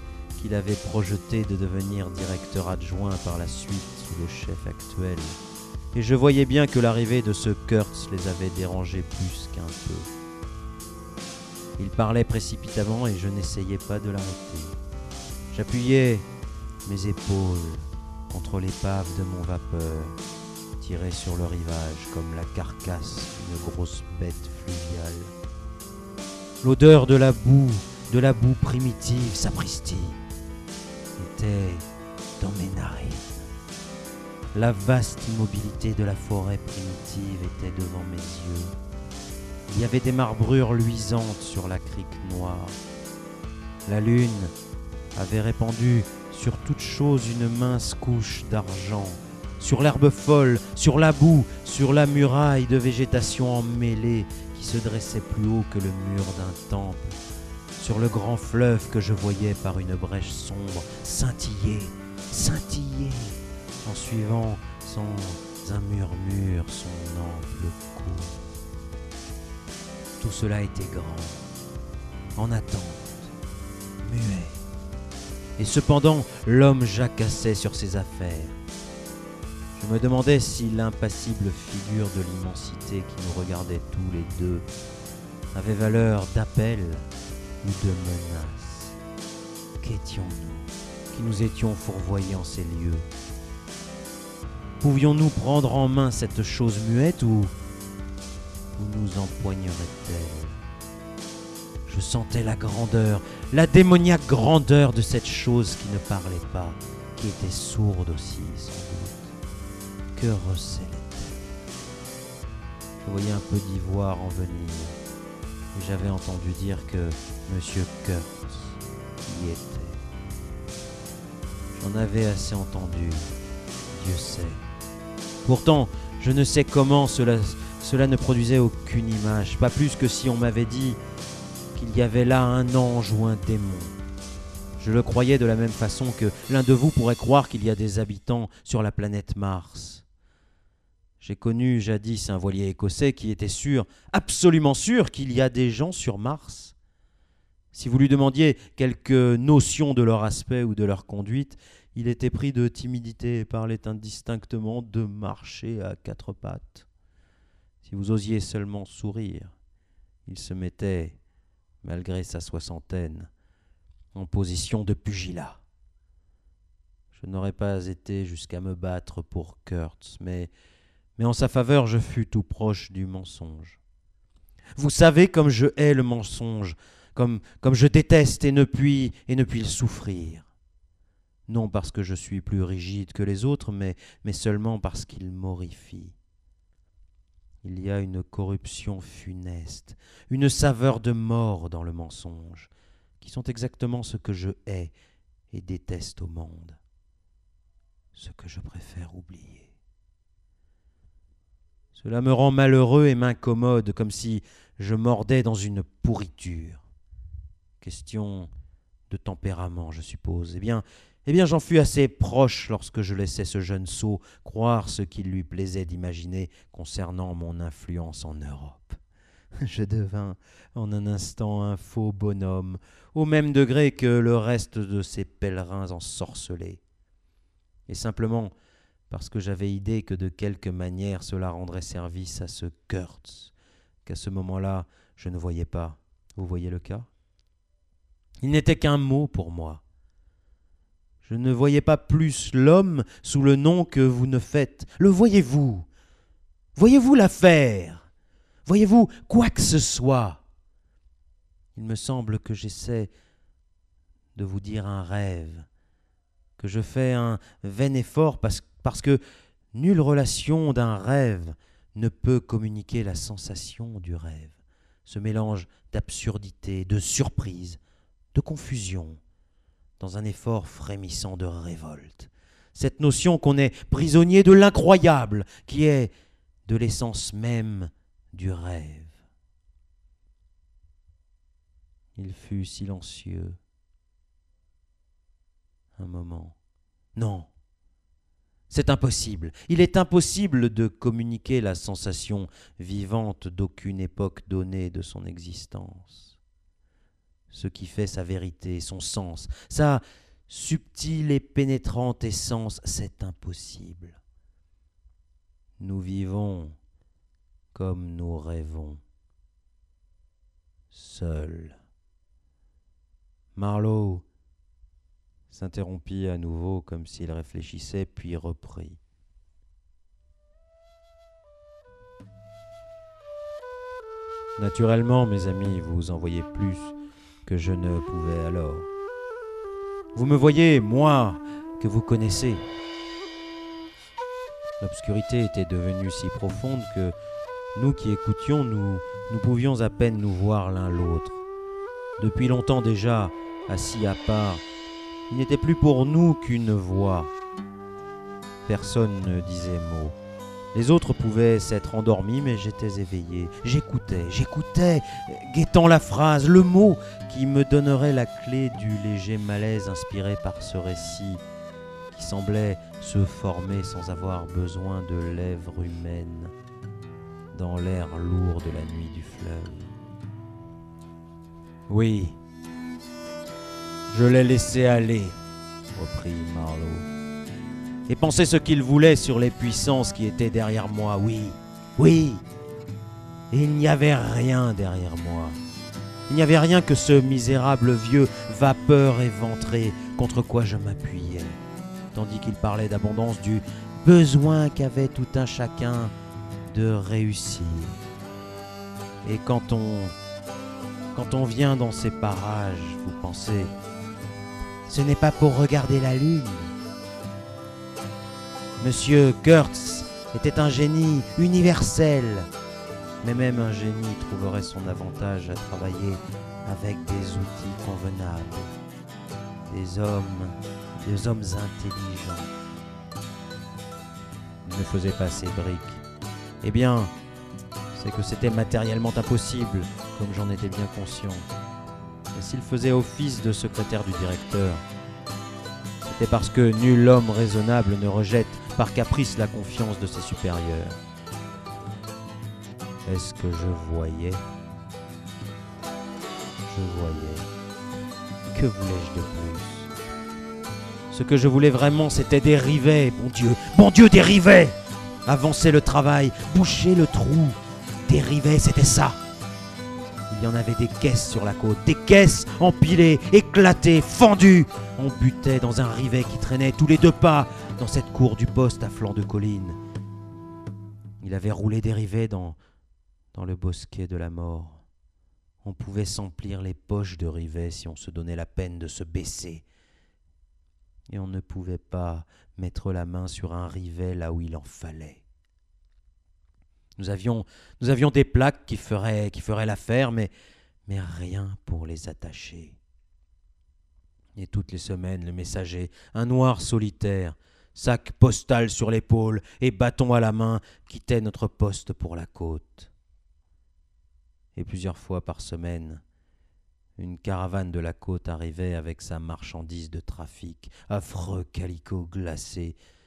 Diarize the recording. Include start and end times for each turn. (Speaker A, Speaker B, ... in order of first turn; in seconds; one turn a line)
Speaker A: 0.3-5.4
Speaker A: 5.9-10.1
Speaker A: 11.8-14.8
Speaker A: 15.5-16.3
Speaker A: 16.8-20.1
Speaker A: 20.8-25.3
Speaker A: 26.6-30.2
Speaker A: 31.2-31.9
Speaker A: 32.4-33.5
Speaker A: 34.5-38.7
Speaker A: 39.7-42.8
Speaker A: 43.9-44.5
Speaker A: 45.1-57.2
Speaker A: 57.8-68.4
Speaker A: 70.2-71.4
Speaker A: 72.3-73.3
Speaker A: 74.0-74.6
Speaker A: 75.6-78.5
Speaker A: 79.8-84.6
Speaker A: 85.5-87.1
Speaker A: 87.6-89.0
Speaker A: 89.8-93.1
Speaker A: 94.8-97.5
Speaker A: 98.8-100.6
Speaker A: 101.9-109.3
Speaker A: 110.1-111.3
Speaker A: 113.0-115.0
Speaker A: 115.7-120.0
Speaker A: 121.8-123.3
Speaker A: 123.9-124.6
Speaker A: 125.4-131.0
Speaker A: 131.7-134.0
Speaker A: 134.8-140.0
Speaker A: 141.2-146.7
Speaker A: 147.7-156.9
Speaker A: 157.8-159.5
Speaker A: 160.2-161.2
Speaker A: 161.8-163.3
Speaker A: 164.1-165.6
Speaker A: 167.1-170.5
Speaker A: 171.2-173.8
Speaker A: 174.8-180.5
Speaker A: 181.5-186.1
Speaker A: 187.6-194.9
Speaker A: 195.5-196.8
Speaker A: 198.1-199.7
Speaker A: 201.9-206.8
Speaker A: 207.8-208.5
Speaker A: 209.1-219.0
Speaker A: 219.6-226.8
Speaker A: 227.9-228.5
Speaker A: 229.1-233.5
Speaker A: 234.0-237.1
Speaker A: 238.4-239.8
Speaker A: 241.2-245.9
Speaker A: 246.8-248.1
Speaker A: 248.7-250.4
Speaker A: 251.7-253.1
Speaker A: 254.3-255.7
Speaker A: 256.6-259.2
Speaker A: 259.7-267.8
Speaker A: 268.3-269.2
Speaker A: 270.0-276.1
Speaker A: 276.6-279.1
Speaker A: 282.1-283.6
Speaker A: 286.0-286.5
Speaker A: 287.1-287.5
Speaker A: 288.7-296.4
Speaker A: 297.5-304.2
Speaker A: 305.8-306.8
Speaker A: 307.7-309.0
Speaker A: 310.9-311.8
Speaker A: 313.5-314.2
Speaker A: 315.5-319.0
Speaker A: 324.6-328.9
Speaker A: 330.1-332.6
Speaker A: 334.8-337.1
Speaker A: 337.7-341.4
Speaker A: 342.2-344.6
Speaker A: 345.3-347.3
Speaker A: 348.6-350.1
Speaker A: 350.7-361.4
Speaker A: 362.1-366.5
Speaker A: 367.5-369.9
Speaker A: 371.9-372.4
Speaker A: 374.1-375.4
Speaker A: 375.9-377.1
Speaker A: 378.1-382.4
Speaker A: 383.5-385.6
Speaker A: 386.3-391.6
Speaker A: 392.1-396.1
Speaker A: 396.7-398.0
Speaker A: 399.2-400.1
Speaker A: 401.1-403.7
Speaker A: 404.9-406.7
Speaker A: 408.8-412.5
Speaker A: 413.2-418.7
Speaker A: 419.7-422.5
Speaker A: 424.6-426.0
Speaker A: 426.6-427.1
Speaker A: 427.9-431.5
Speaker A: 432.3-434.8
Speaker A: 436.0-441.0
Speaker A: 443.1-444.4
Speaker A: 446.7-447.5
Speaker A: 448.5-449.9
Speaker A: 451.1-459.2
Speaker A: 460.3-469.8
Speaker A: 471.2-472.6
Speaker A: 473.3-474.8
Speaker A: 475.6-479.6
Speaker A: 481.1-485.2
Speaker A: 487.0-490.3
Speaker A: 490.9-492.8
Speaker A: 494.4-502.9
Speaker A: 504.5-506.0
Speaker A: 507.0-512.8